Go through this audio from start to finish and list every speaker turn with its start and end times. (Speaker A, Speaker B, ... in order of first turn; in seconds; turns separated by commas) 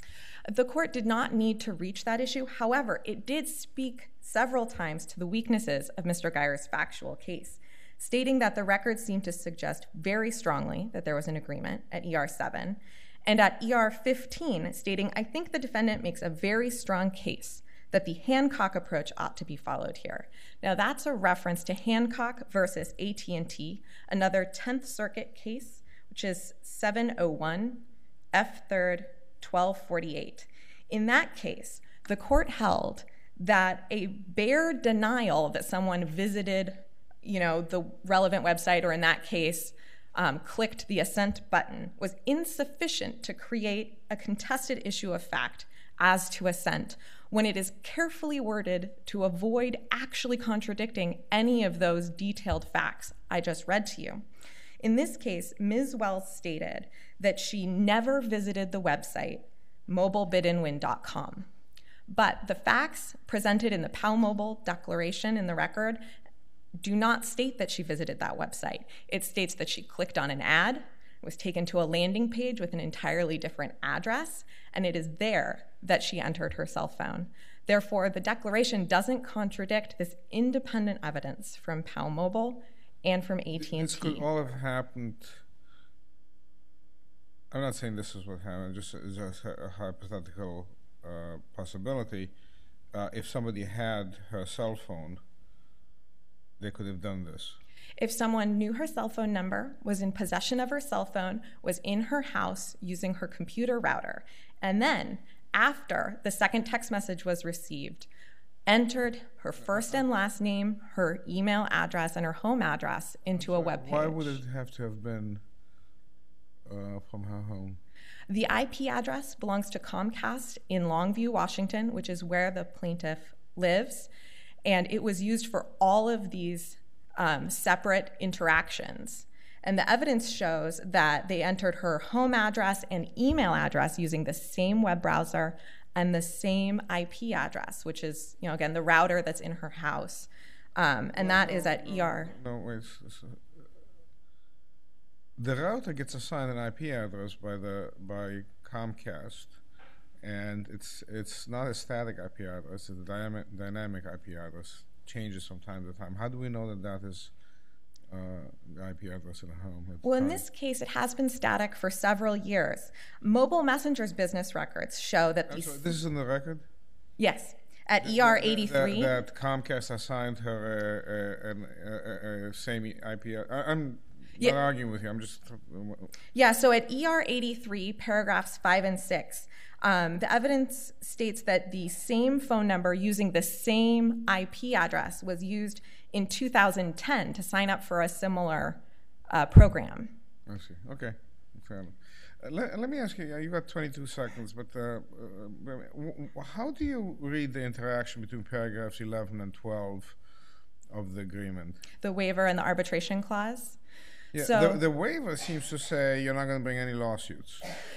Speaker A: 0.5-54.2, Speaker A: 54.8-61.5, Speaker A: 62.1-66.0, Speaker A: 66.8-84.2, Speaker B: 83.6-85.4, Speaker B: 87.5-92.3, Speaker B: 92.9-95.2, Speaker B: 96.6-97.6, Speaker A: 98.0-108.1, Speaker A: 108.7-114.4, Speaker B: 113.4-115.4, Speaker B: 116.7-117.8, Speaker A: 118.3-124.1, Speaker A: 124.7-142.3, Speaker B: 141.2-143.4, Speaker B: 145.4-149.6, Speaker B: 150.2-157.3, Speaker B: 158.1-160.4, Speaker A: 160.0-165.9, Speaker B: 165.5-166.7, Speaker A: 167.2-169.2, Speaker B: 168.0-176.1, Speaker A: 176.3-190.2, Speaker B: 190.5-200.2, Speaker B: 200.9-201.8, Speaker A: 202.0-203.8, Speaker B: 204.3-207.7, Speaker A: 204.4-204.8